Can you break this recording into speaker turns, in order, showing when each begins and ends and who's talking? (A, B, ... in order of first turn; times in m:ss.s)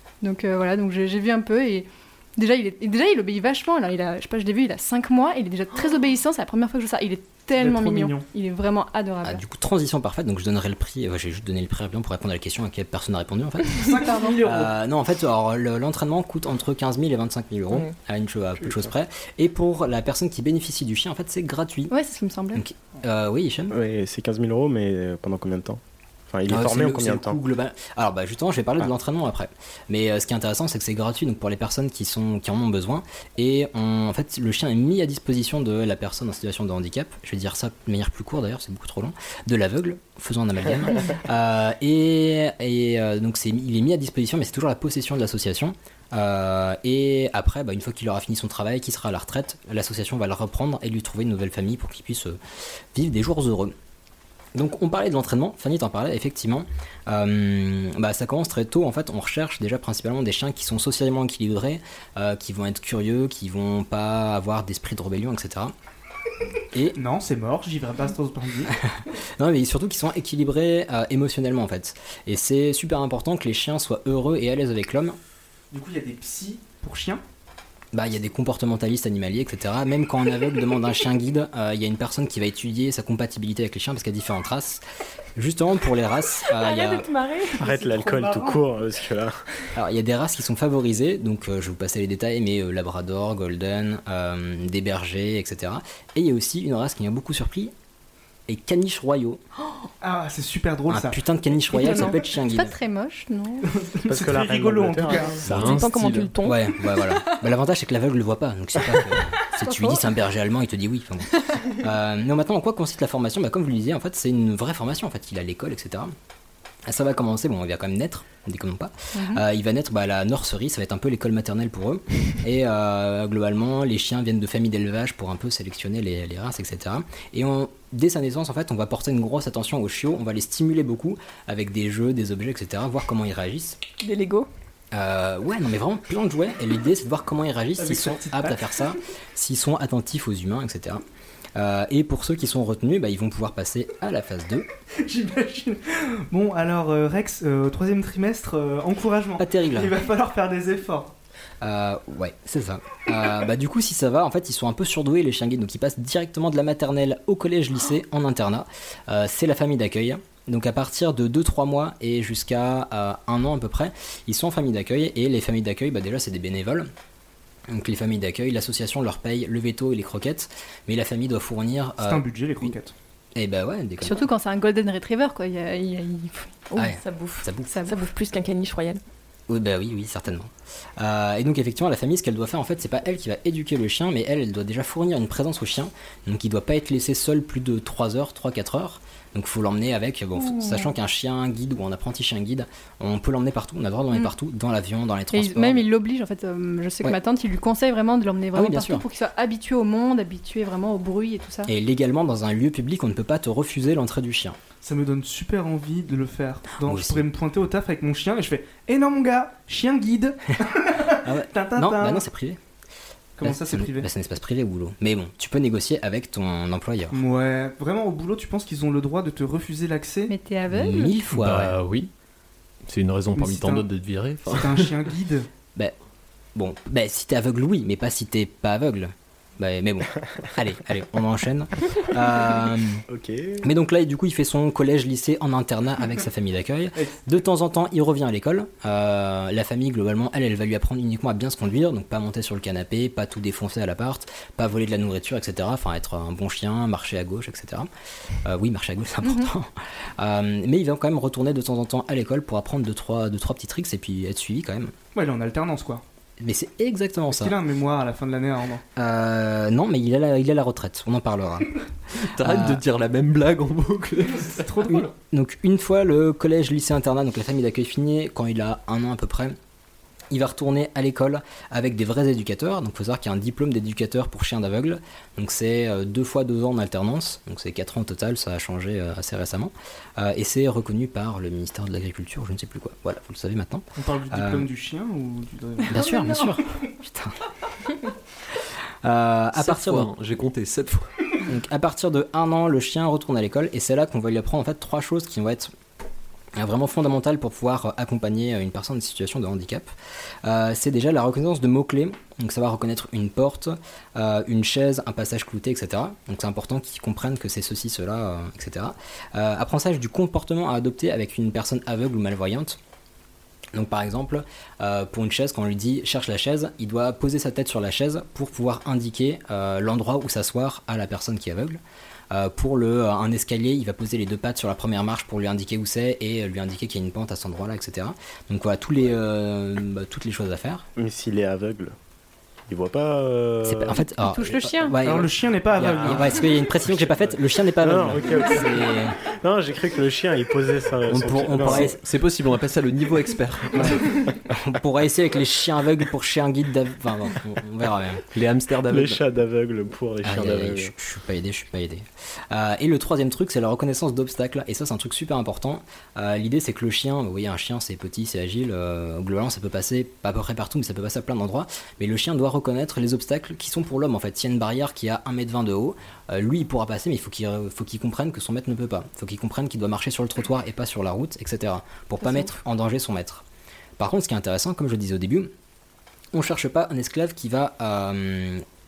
0:00.2-0:09.4 A
0:07.6-0:08.3 B
0:09.2-0:21.9 C
0:13.8-0:14.7 B
0:13.9-0:14.4 A
0:21.9-0:22.6 A
0:22.5-0:23.7 C
0:23.7-0:27.4 D
0:26.5-0:52.4 C
0:52.9-0:53.7 C
0:54.6-1:05.7 C
1:06.7-1:07.0 C
1:07.0-1:08.7 B
1:08.7-1:15.2 C
1:15.7-1:17.2 B
1:17.9-1:24.8 C
1:25.4-1:27.1 C
1:26.5-1:28.5 E
1:27.6-1:29.4 D
1:29.8-1:37.7 C
1:38.5-1:39.4 C
1:40.0-1:41.2 B
1:40.9-1:42.7 C
1:41.7-1:42.2 E
1:42.4-1:43.7 A
1:43.7-1:45.6 B
1:44.1-1:45.3 D
1:45.4-1:46.3 F
1:45.5-1:45.8 C
1:45.5-1:46.6 E
1:46.4-1:56.1 C
1:49.6-1:50.1 A
1:56.9-2:13.8 C
1:59.2-1:59.4 A
2:14.0-2:14.5 E
2:14.9-2:21.0 C
2:17.8-2:18.6 B
2:21.6-2:24.7 C
2:25.0-2:31.1 B
2:29.4-2:30.0 C
2:31.6-2:46.9 C
2:47.7-2:52.7 C
2:52.0-2:52.9 B
2:53.4-2:54.3 C
2:54.0-2:56.7 A
2:56.7-2:59.0 E
2:56.8-2:57.8 C
2:57.7-2:58.0 A
2:59.5-3:15.9 C
3:15.3-3:21.7 A
3:18.5-3:19.0 C
3:21.7-3:24.6 C
3:24.8-3:32.2 B
3:26.8-3:27.3 C
3:31.2-3:32.6 C
3:33.4-3:34.1 B
3:33.4-3:37.2 C
3:37.1-3:40.3 B
3:40.3-3:41.2 A
3:40.7-3:41.8 C
3:41.3-3:42.1 F
3:42.9-3:44.9 F
3:43.4-3:43.9 B
3:44.5-3:45.5 B
3:46.6-3:53.0 C
3:53.1-3:53.6 D
3:53.6-4:07.9 C
4:08.4-4:14.9 C
4:09.2-4:09.5 A
4:15.1-4:16.0 B
4:16.4-4:17.6 C
4:17.3-4:18.8 B
4:19.0-4:21.8 C
4:22.2-4:24.8 F
4:22.4-4:22.8 C
4:24.5-4:25.1 B
4:24.9-4:29.6 C
4:30.3-4:44.7 C
4:44.0-4:46.1 B
4:45.9-4:47.3 C
4:49.0-4:50.1 C
4:49.6-4:51.1 F
4:51.4-4:55.7 C
4:56.6-4:59.9 C
5:00.4-5:12.8 C
5:13.7-5:21.8 C
5:22.3-5:30.9 C
5:31.0-5:32.0 D
5:32.7-5:34.0 D
5:33.6-5:39.2 C
5:34.4-5:34.9 A
5:35.0-5:36.4 B
5:37.8-5:41.9 D
5:41.1-5:42.0 C
5:41.6-5:44.0 F
5:43.7-5:48.2 C
5:48.3-5:49.2 F
5:48.9-5:50.9 D
5:50.2-6:13.4 C
6:14.0-6:15.5 C
6:16.3-6:18.6 C